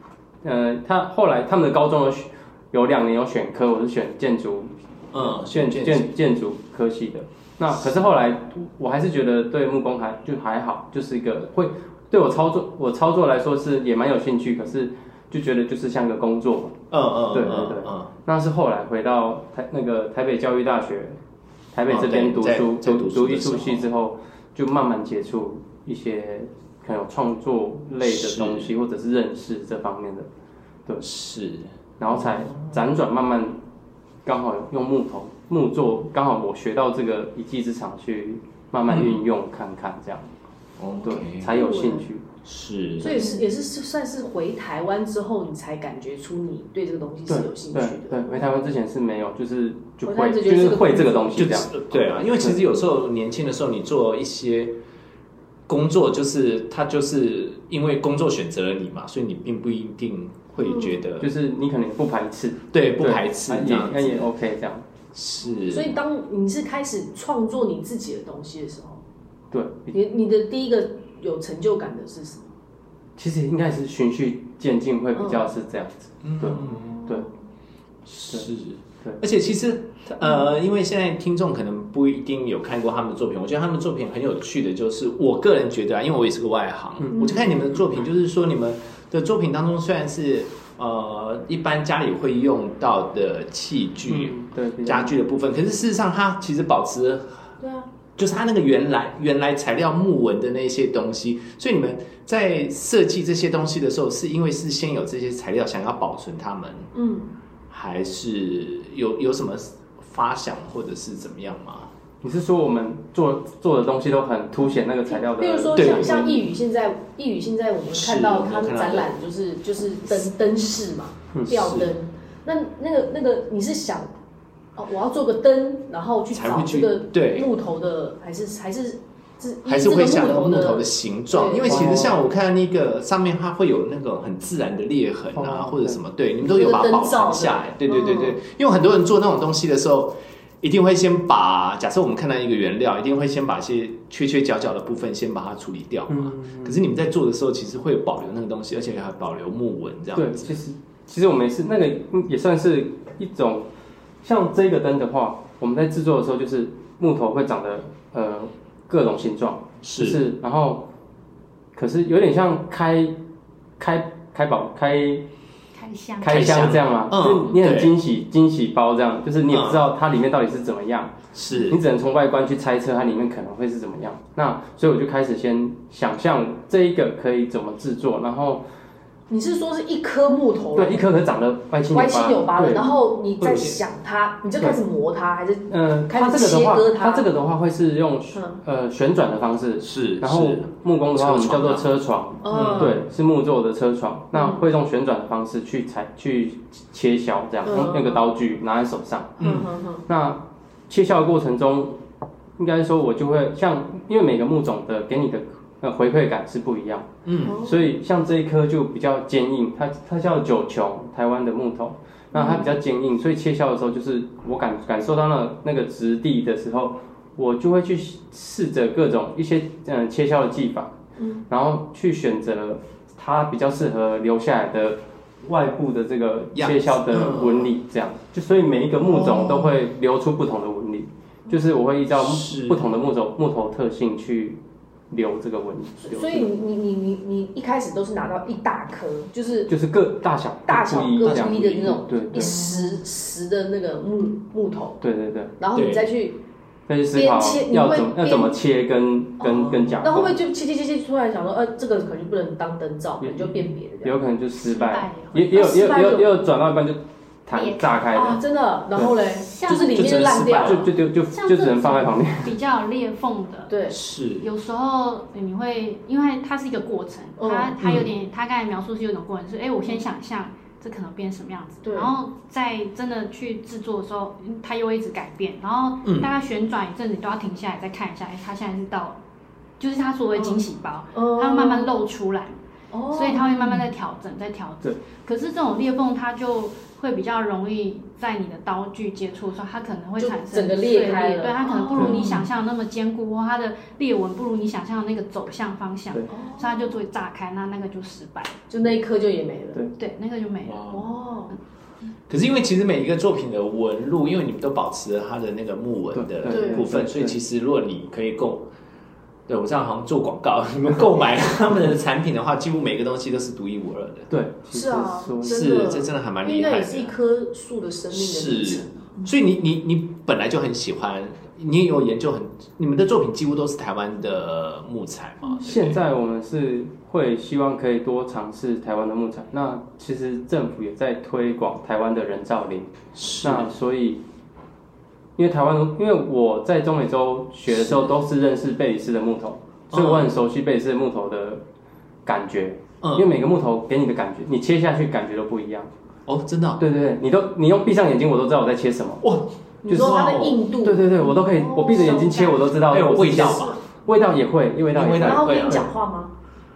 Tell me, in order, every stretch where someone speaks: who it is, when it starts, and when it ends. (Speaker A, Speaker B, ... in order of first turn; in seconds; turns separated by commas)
Speaker A: 0.4-16.8, Speaker B: 5.1-6.1, Speaker B: 16.9-18.1, Speaker A: 17.3-21.2, Speaker A: 21.7-30.3, Speaker B: 21.9-23.9, Speaker B: 28.0-28.7, Speaker B: 31.0-32.8, Speaker A: 32.0-33.6, Speaker A: 34.2-40.3, Speaker B: 38.9-39.2, Speaker B: 40.8-41.5, Speaker A: 41.0-42.2, Speaker C: 41.4-42.0, Speaker B: 42.4-43.2, Speaker C: 43.0-48.5, Speaker D: 43.1-43.4, Speaker A: 47.3-52.6, Speaker C: 50.0-51.3, Speaker B: 51.3-54.8, Speaker B: 55.7-61.3, Speaker C: 60.6-61.0, Speaker A: 61.2-64.8, Speaker B: 62.7-64.3, Speaker B: 65.1-66.0, Speaker C: 65.7-69.0, Speaker A: 69.5-70.0, Speaker C: 69.9-72.5, Speaker A: 73.2-77.3, Speaker C: 75.2-75.5, Speaker B: 76.2-77.0, Speaker C: 76.6-77.3, Speaker B: 78.0-97.5, Speaker A: 87.0-87.3, Speaker C: 87.1-87.5, Speaker A: 94.1-95.2, Speaker C: 97.6-97.9, Speaker B: 98.2-106.9, Speaker C: 106.9-107.3, Speaker B: 107.7-111.9, Speaker A: 112.2-116.4, Speaker C: 114.6-124.1, Speaker B: 115.7-116.4, Speaker B: 117.9-119.1, Speaker B: 121.5-121.9, Speaker C: 124.8-132.1, Speaker B: 126.3-127.5, Speaker B: 129.6-150.6, Speaker A: 131.6-132.2, Speaker A: 135.3-136.0, Speaker C: 136.4-138.4, Speaker A: 146.1-146.8, Speaker A: 150.1-153.7, Speaker A: 154.2-160.9, Speaker B: 159.8-160.2, Speaker A: 161.7-163.2, Speaker A: 163.8-165.2, Speaker D: 165.7-166.5, Speaker A: 166.2-171.2, Speaker B: 166.2-167.9, Speaker B: 169.5-169.8, Speaker B: 171.3-171.8, Speaker A: 171.7-178.6, Speaker C: 179.3-181.1, Speaker A: 180.7-182.9, Speaker C: 181.9-187.2, Speaker B: 183.4-183.8, Speaker A: 185.7-202.0, Speaker C: 188.3-188.6, Speaker B: 189.8-193.0, Speaker C: 192.4-193.0, Speaker C: 194.3-194.6, Speaker C: 197.6-198.3, Speaker B: 199.4-199.7, Speaker C: 199.4-200.0, Speaker A: 202.6-220.9, Speaker B: 207.2-207.6, Speaker C: 207.4-207.9, Speaker C: 212.3-212.7, Speaker C: 221.2-221.4, Speaker A: 221.5-236.6, Speaker B: 226.5-227.7, Speaker B: 229.1-229.7, Speaker B: 232.1-232.9, Speaker C: 236.0-239.7, Speaker A: 239.7-242.6, Speaker C: 240.7-245.0, Speaker B: 241.2-243.0, Speaker A: 245.0-245.5, Speaker C: 245.6-246.4, Speaker B: 245.7-246.1, Speaker A: 246.9-250.4, Speaker C: 247.1-248.6, Speaker C: 249.4-254.1, Speaker A: 253.2-258.4, Speaker D: 254.6-256.0, Speaker C: 255.5-256.5, Speaker D: 257.5-258.1, Speaker C: 258.1-260.9, Speaker D: 259.3-260.1, Speaker B: 259.7-260.9, Speaker A: 260.4-262.5, Speaker D: 261.3-263.8, Speaker C: 263.7-264.0, Speaker B: 263.9-264.5, Speaker D: 264.4-279.2, Speaker C: 267.4-267.8, Speaker B: 267.8-268.1, Speaker C: 271.8-272.1, Speaker B: 276.0-276.3, Speaker D: 279.8-282.6, Speaker C: 280.3-280.6, Speaker C: 281.1-281.9, Speaker C: 282.9-283.8, Speaker D: 283.1-298.6, Speaker C: 290.2-292.4, Speaker A: 291.9-292.4, Speaker C: 296.3-296.9, Speaker C: 298.7-299.8, Speaker D: 299.9-301.0, Speaker B: 300.6-301.1, Speaker C: 300.9-301.6, Speaker B: 302.3-308.7, Speaker A: 306.1-307.4, Speaker C: 306.5-306.9, Speaker B: 309.5-314.3, Speaker A: 314.3-315.7, Speaker C: 314.7-319.2, Speaker B: 315.4-317.1, Speaker B: 318.1-326.0, Speaker A: 325.6-334.2, Speaker B: 333.1-333.7, Speaker A: 335.4-341.6, Speaker B: 337.7-338.1, Speaker B: 339.9-340.3, Speaker A: 342.2-345.9, Speaker B: 343.0-343.3, Speaker B: 346.2-346.8, Speaker A: 346.8-349.2, Speaker B: 349.2-350.6, Speaker C: 349.8-352.6, Speaker A: 349.8-355.9, Speaker B: 352.9-353.8, Speaker C: 353.1-353.8, Speaker B: 354.9-355.8, Speaker C: 355.2-356.3